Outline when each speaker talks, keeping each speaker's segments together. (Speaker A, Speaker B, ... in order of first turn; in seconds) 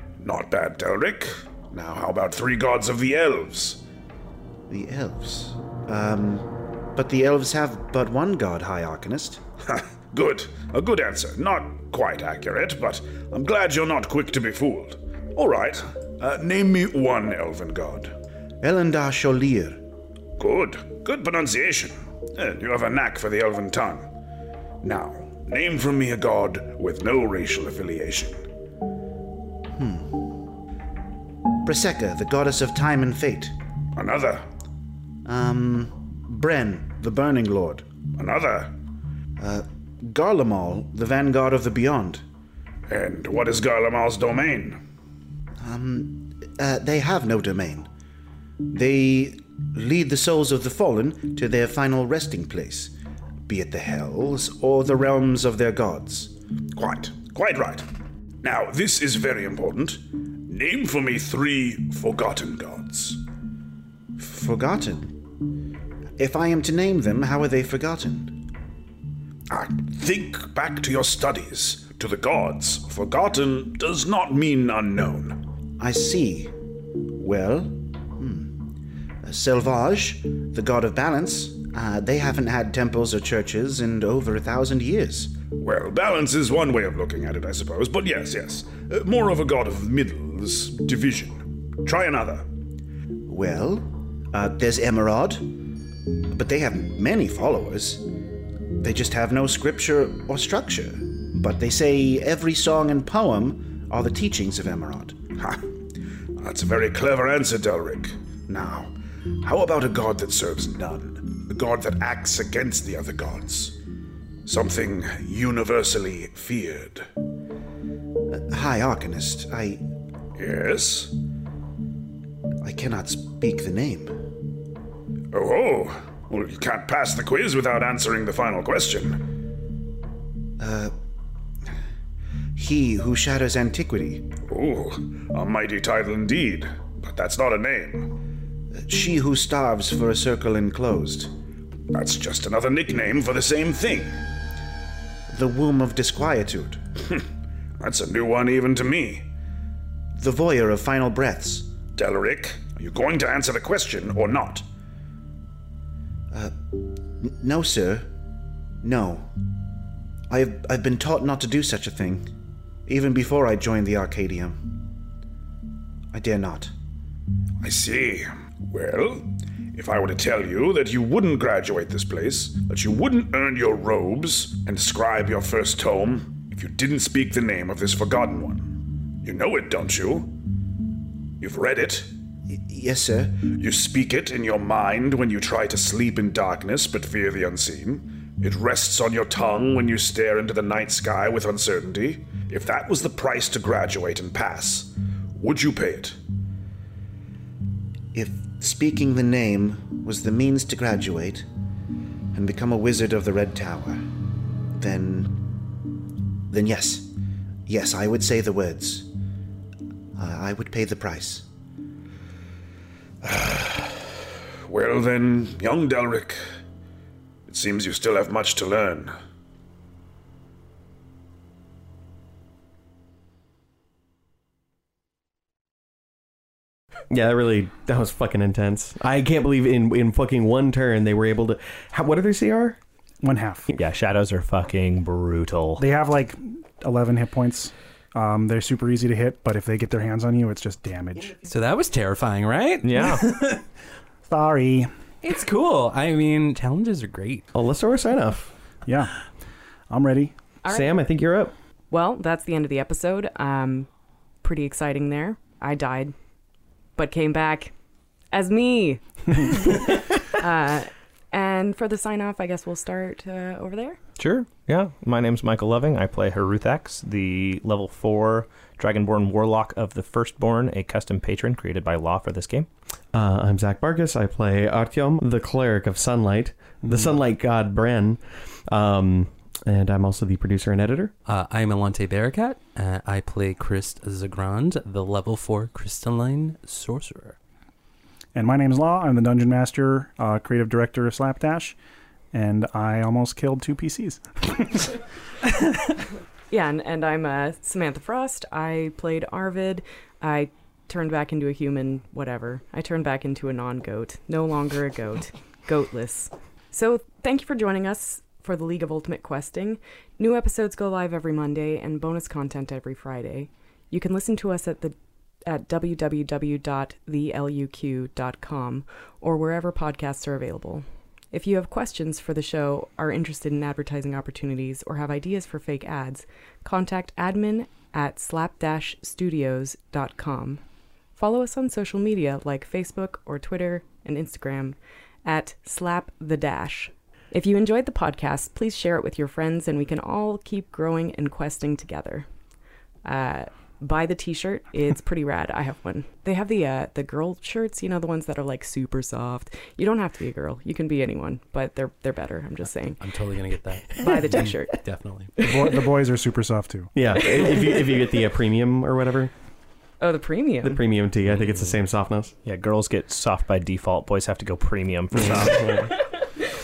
Speaker A: 0.2-3.8, 9.7-18.1, 20.4-24.1, 24.8-28.4, 33.9-34.4, 38.1-38.7, 42.9-44.8, 56.8-57.9, 58.4-63.2, 69.5-75.4, 85.5-92.5, 105.3-105.6, 106.4-108.9, 109.4-113.8, 114.5-117.1, 120.4-121.1, 125.3-129.2, 134.4-138.1, 141.9-144.2, 147.8-149.3, 151.9-154.7, 167.6-180.3, 181.4-182.1, 183.5-196.2, 213.2-214.1, 214.7-216.4, 217.5-219.1
Speaker B: 4.7-9.4, 18.6-19.8, 29.7-30.3, 31.6-33.5, 35.2-37.9, 39.4-42.2, 45.6-47.9, 48.7-52.9, 53.5-56.3, 64.2-65.2, 66.2-68.4, 75.8-76.5, 77.2-78.6, 79.2-85.3, 93.3-95.6, 96.3-98.0, 98.8-105.3, 118.3-119.8, 122.6-124.2, 130.6-130.9, 132.6-134.3, 138.7-141.3, 145.3-146.8, 150.2-151.7, 156.3-158.1, 158.8-159.3, 160.3-162.3, 162.9-164.7, 166.1-166.7, 182.5-183.4, 198.1-201.4, 202.3-204.0, 204.8-205.4, 206.5-207.1, 207.7-209.1, 210.2-211.5
Speaker C: 227.1-232.8, 247.5-248.5, 250.7-251.5, 273.1-281.1, 356.9-359.3, 360.6-362.3, 365.1-365.9
Speaker D: 233.2-233.7, 235.8-241.4, 244.3-244.9, 248.8-249.2, 249.9-250.3, 288.3-291.8, 292.3-294.9, 355.4-356.9
Speaker E: 233.7-235.8, 242.8-243.3, 264.2-272.7, 362.4-365.6
Speaker F: 241.4-243.6, 245.2-247.5, 281.2-287.4, 353.0-355.3, 361.4-361.7
Speaker G: 250.6-250.9, 251.9-253.9, 254.4-256.1, 256.9-257.7, 258.3-264.0, 296.5-330.6, 331.1-342.3, 343.0-353.0, 354.0-354.8, 355.4-355.9, 357.2-357.9, 360.0-360.8